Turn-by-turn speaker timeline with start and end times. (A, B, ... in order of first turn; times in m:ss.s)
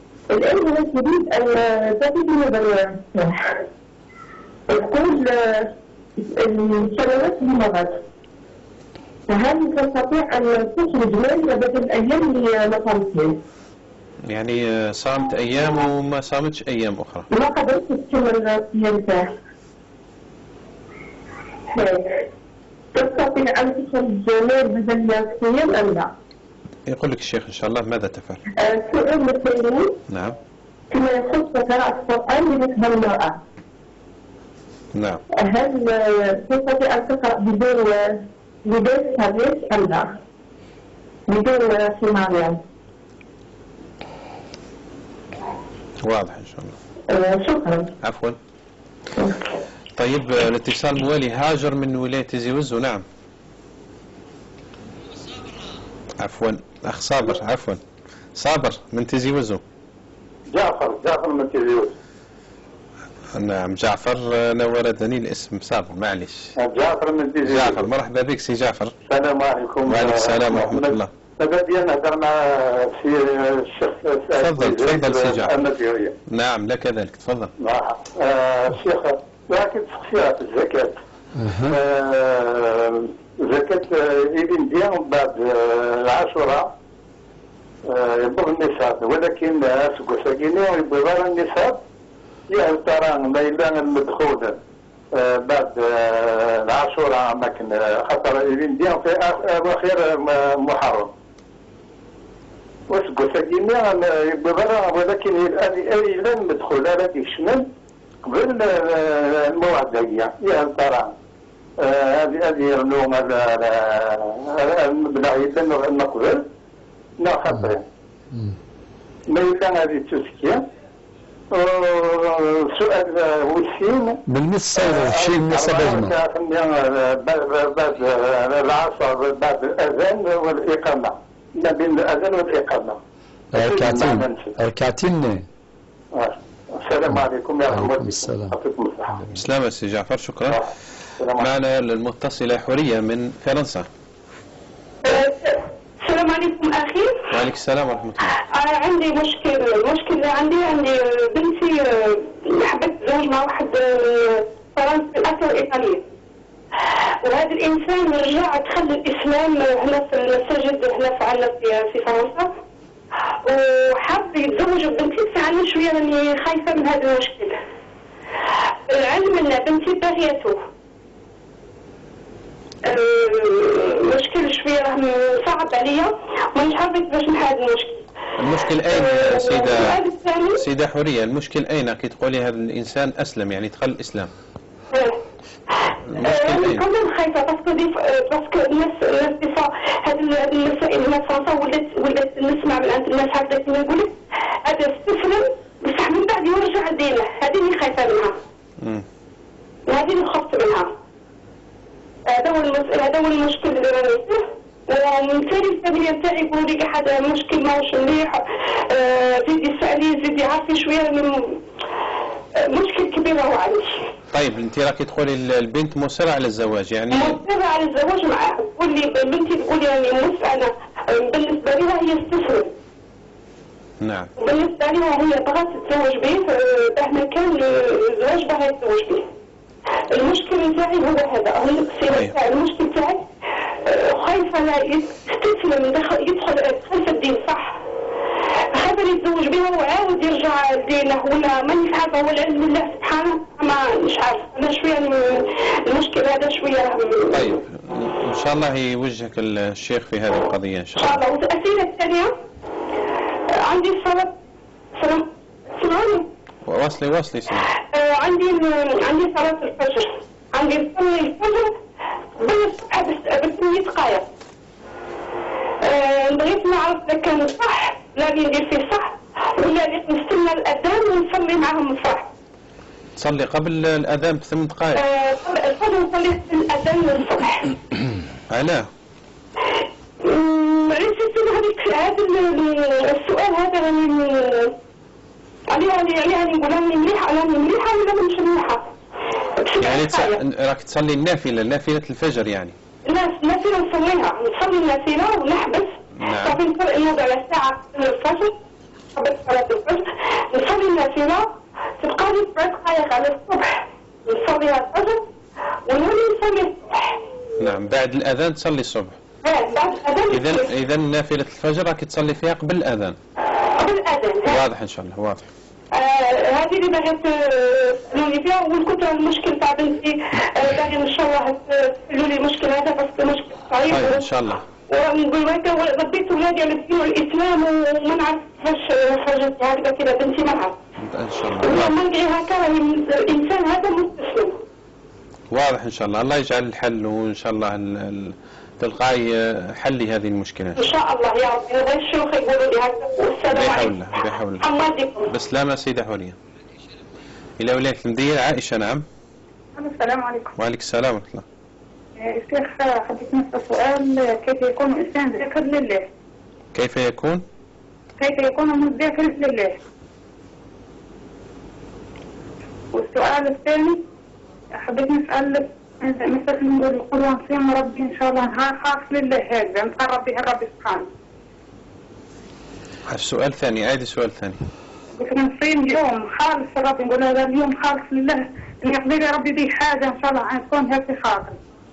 0:00.3-0:03.6 A
0:04.7-0:08.0 A
0:09.3-0:13.4 A
0:14.3-0:17.3 B
0:17.3-0:19.3 A
0:21.7-0:22.2 A
0:22.9-0:26.1 A
0:26.9-0:28.4 B
0:28.6-0:30.0 A
0:30.1-0:30.4 B
0:30.9-0:33.4 A
0:34.9-0:35.2 B
0:35.3-0:40.1 A
0:41.3-0:42.6 A
0:46.0-0:46.8 B
0:47.1-0:47.9 A
0:48.0-0:48.4 B
0:49.2-0:49.4 A
0:49.9-0:53.0 B
0:56.2-0:57.8 B
0:58.4-0:59.6 B
1:00.5-1:01.9 C
1:03.3-1:06.5 B
1:06.6-1:07.9 C
1:07.4-1:08.9 B
1:09.1-1:16.1 C
1:09.8-1:11.1 B
1:14.4-1:15.6 B
1:16.3-1:17.5 B
1:17.6-1:21.0 C
1:21.4-1:21.8 D
1:21.7-1:26.7 C
1:27.9-1:31.8 C
1:32.5-1:34.6 C
1:35.1-1:41.1 C
1:42.9-1:47.7 C
1:48.2-1:51.1 C
1:51.8-1:56.4 C
1:57.2-1:57.8 C
1:59.3-2:00.6 C
2:01.5-2:04.2 C
2:04.3-2:06.1 D
2:04.8-2:13.0 C
2:13.5-2:15.4 D
2:13.5-2:14.5 C
2:16.1-2:19.2 C
2:17.7-2:18.6 D
2:19.3-2:20.6 B
2:21.2-2:21.5 C
2:21.4-2:23.9 B
2:25.0-2:27.3 E
2:27.3-2:28.3 B
2:28.4-2:36.0 E
2:37.2-2:42.5 E
2:43.4-2:47.6 E
2:48.9-2:50.6 E
2:52.8-2:58.0 E
2:58.4-3:00.0 B
2:58.8-3:00.6 E
3:00.6-3:04.3 B
3:04.9-3:05.2 E
3:06.1-3:06.8 B
3:06.2-3:18.4 E
3:19.9-3:20.9 E
3:22.3-3:31.6 E
3:32.6-3:34.1 E
3:34.3-3:37.4 B
3:37.1-3:42.7 E
3:44.0-3:44.3 B
3:44.4-3:49.3 E
3:50.1-3:53.3 E
3:53.8-3:57.8 E
3:58.7-4:07.5 E
4:07.3-4:11.2 B
4:11.0-4:12.3 E
4:13.5-4:14.3 E
4:15.0-4:16.3 E
4:16.6-4:17.7 B
4:17.8-4:21.8 E
4:22.4-4:24.2 E
4:25.8-4:32.3 E
4:33.2-4:35.0 B
4:34.9-4:37.7 E
4:38.5-4:38.9 B
4:40.2-4:44.7 E
4:45.7-4:48.9 E
4:49.6-4:50.4 E
4:49.8-4:52.7 B
4:53.0-4:58.5 E
4:56.2-4:56.6 B
4:59.1-5:05.3 E
5:05.9-5:07.2 E
5:07.6-5:09.2 B
5:09.4-5:10.7 E
5:10.3-5:13.2 B
5:13.7-5:14.6 E
5:14.5-5:15.5 B
5:15.9-5:24.3 E
5:23.9-5:24.6 B
5:24.9-5:30.8 E
5:31.0-5:31.9 B
5:31.6-5:34.6 E
5:35.5-5:40.9 B
5:40.8-5:44.1 E
5:43.5-5:44.6 B
5:44.6-5:45.3 E
5:45.3-5:46.4 B
5:47.6-5:49.0 B
5:49.8-5:50.5 F
5:50.6-5:51.4 B
5:52.2-5:56.1 F
5:56.7-5:57.4 B
5:58.2-5:59.8 F
6:02.9-6:04.0 F
6:04.8-6:11.1 F
6:13.1-6:14.6 B
6:15.2-6:21.6 F